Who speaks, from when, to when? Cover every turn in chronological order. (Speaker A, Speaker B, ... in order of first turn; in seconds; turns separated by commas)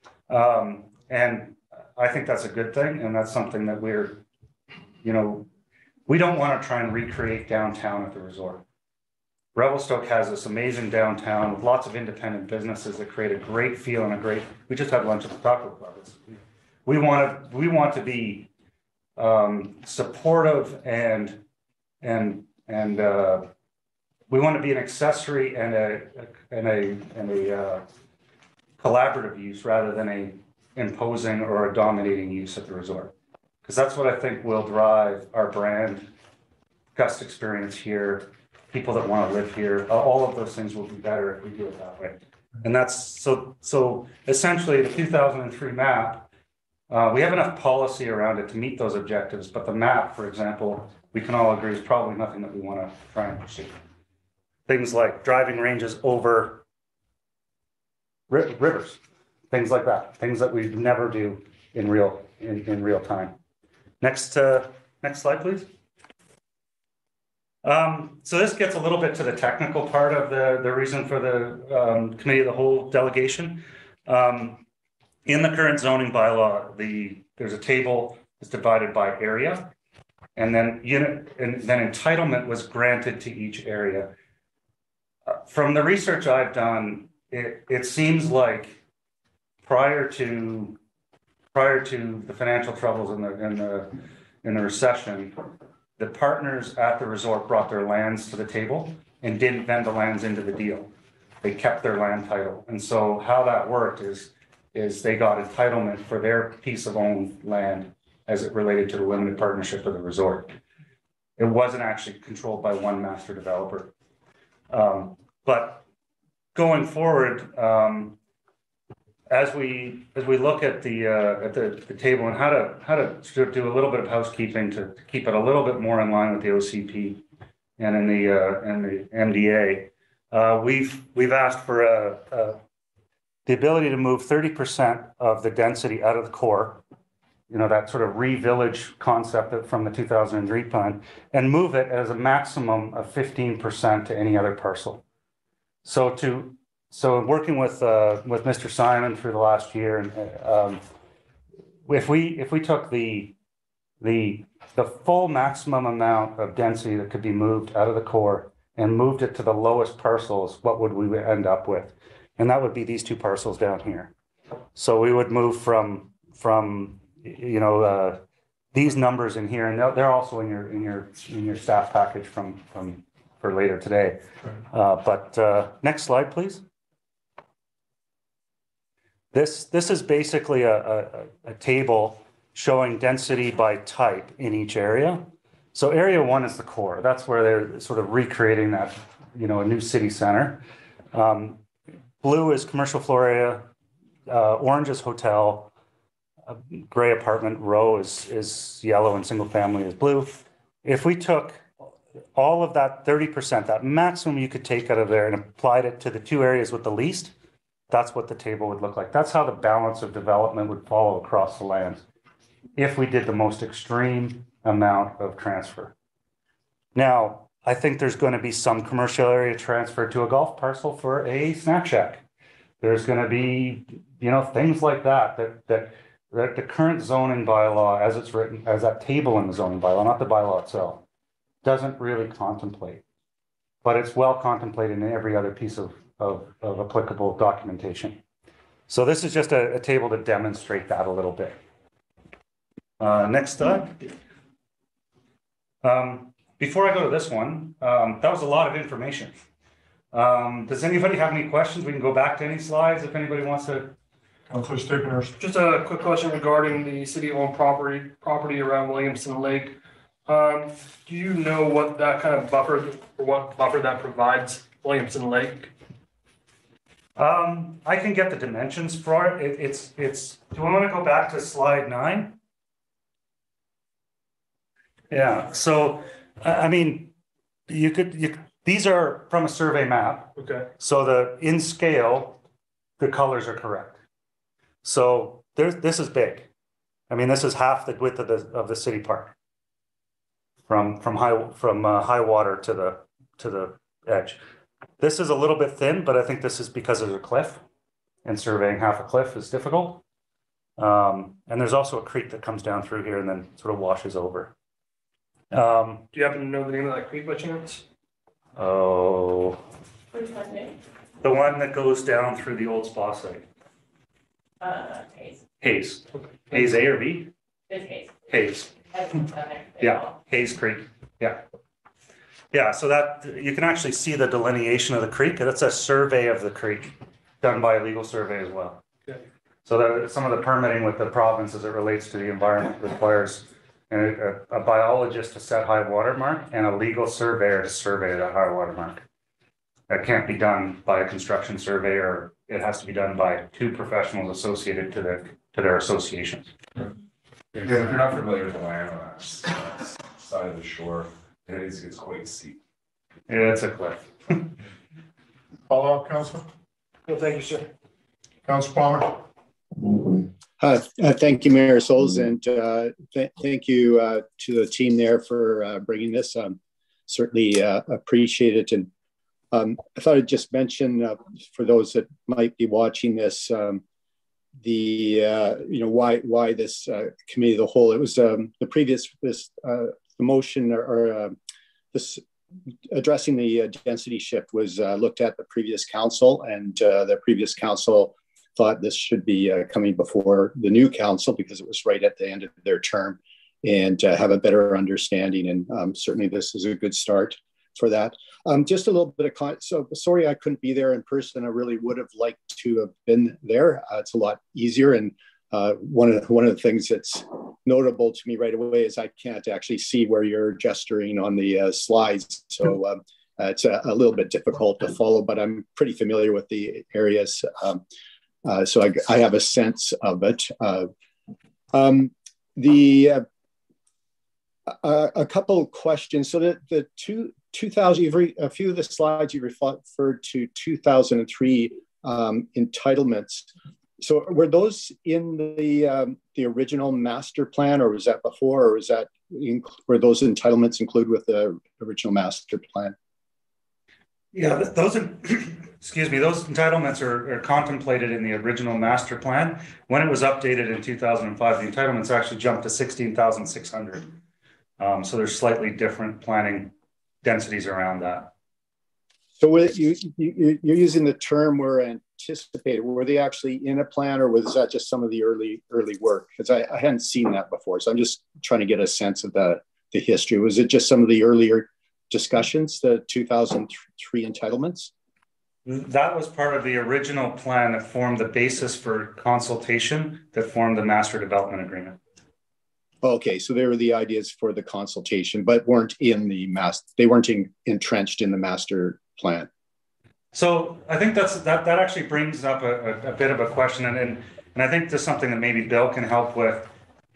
Speaker A: 0.3-4.2, Speaker A: 5.0-5.5, Speaker A: 6.1-8.6, Speaker A: 9.5-18.5, Speaker A: 19.2-21.4, Speaker A: 22.0-23.5, Speaker A: 24.3-27.8, Speaker A: 28.8-33.1, Speaker A: 33.6-36.1, Speaker A: 36.9-46.3, Speaker A: 46.9-53.7, Speaker A: 54.7-56.6, Speaker A: 58.3-59.0, Speaker A: 59.5-63.4, Speaker A: 64.0-65.7, Speaker A: 67.6-74.6, Speaker A: 75.2-79.7, Speaker A: 80.3-84.1, Speaker A: 85.3-88.8, Speaker A: 89.6-90.8, Speaker A: 91.5-95.4, Speaker A: 96.0-100.9, Speaker A: 101.4-110.6, Speaker A: 111.4-113.9, Speaker A: 114.7-115.8, Speaker A: 116.5-118.2, Speaker A: 119.3-127.2, Speaker A: 127.8-132.6, Speaker A: 133.4-136.8, Speaker A: 137.5-145.0, Speaker A: 145.8-150.8, Speaker A: 151.8-153.3, Speaker A: 154.0-164.1, Speaker A: 164.7-168.2, Speaker A: 168.7-174.2, Speaker A: 174.7-176.6, Speaker A: 179.3-191.6, Speaker A: 192.2-193.7, Speaker A: 194.3-195.7, Speaker A: 196.5-201.7, Speaker A: 202.3-207.3, Speaker A: 207.9-212.0, Speaker A: 212.8-215.9, Speaker A: 216.9-222.2, Speaker A: 222.8-231.0, Speaker A: 231.6-233.0, Speaker A: 233.8-238.2, Speaker A: 238.9-241.6, Speaker A: 243.0-244.0, Speaker A: 245.8-249.3, Speaker A: 250.1-253.9, Speaker B: 254.5-255.3, Speaker C: 255.4-259.8, Speaker C: 260.3-265.7, Speaker A: 267.2-272.4, Speaker A: 275.1-277.1, Speaker A: 277.7-282.4, Speaker C: 280.4-280.7, Speaker A: 283.0-284.0, Speaker A: 284.8-286.5, Speaker A: 287.1-289.3, Speaker A: 290.7-294.4, Speaker A: 295.0-297.6, Speaker A: 298.2-300.0, Speaker A: 300.8-304.5, Speaker A: 305.5-306.1, Speaker C: 306.1-307.8, Speaker A: 308.6-309.6, Speaker D: 310.1-310.8, Speaker A: 311.2-313.4, Speaker D: 314.6-315.4, Speaker A: 315.6-317.3, Speaker D: 317.7-318.1, Speaker A: 318.3-318.7, Speaker D: 318.9-320.1, Speaker A: 319.8-321.4, Speaker A: 322.5-328.8, Speaker A: 329.6-339.0, Speaker A: 339.9-346.5, Speaker E: 347.5-352.6, Speaker A: 353.3-354.5, Speaker B: 355.7-356.5, Speaker C: 357.1-357.7, Speaker B: 358.4-359.2, Speaker F: 360.6-368.9, Speaker F: 369.5-373.8, Speaker F: 374.6-381.4, Speaker F: 381.9-382.2, Speaker F: 382.9-417.8, Speaker F: 418.4-420.9, Speaker F: 421.7-423.2, Speaker F: 424.8-433.5, Speaker F: 434.0-442.9, Speaker A: 444.3-454.1, Speaker A: 454.8-456.7, Speaker A: 457.2-458.3, Speaker F: 459.4-474.9, Speaker A: 475.6-482.0, Speaker F: 483.0-489.5, Speaker A: 490.3-496.7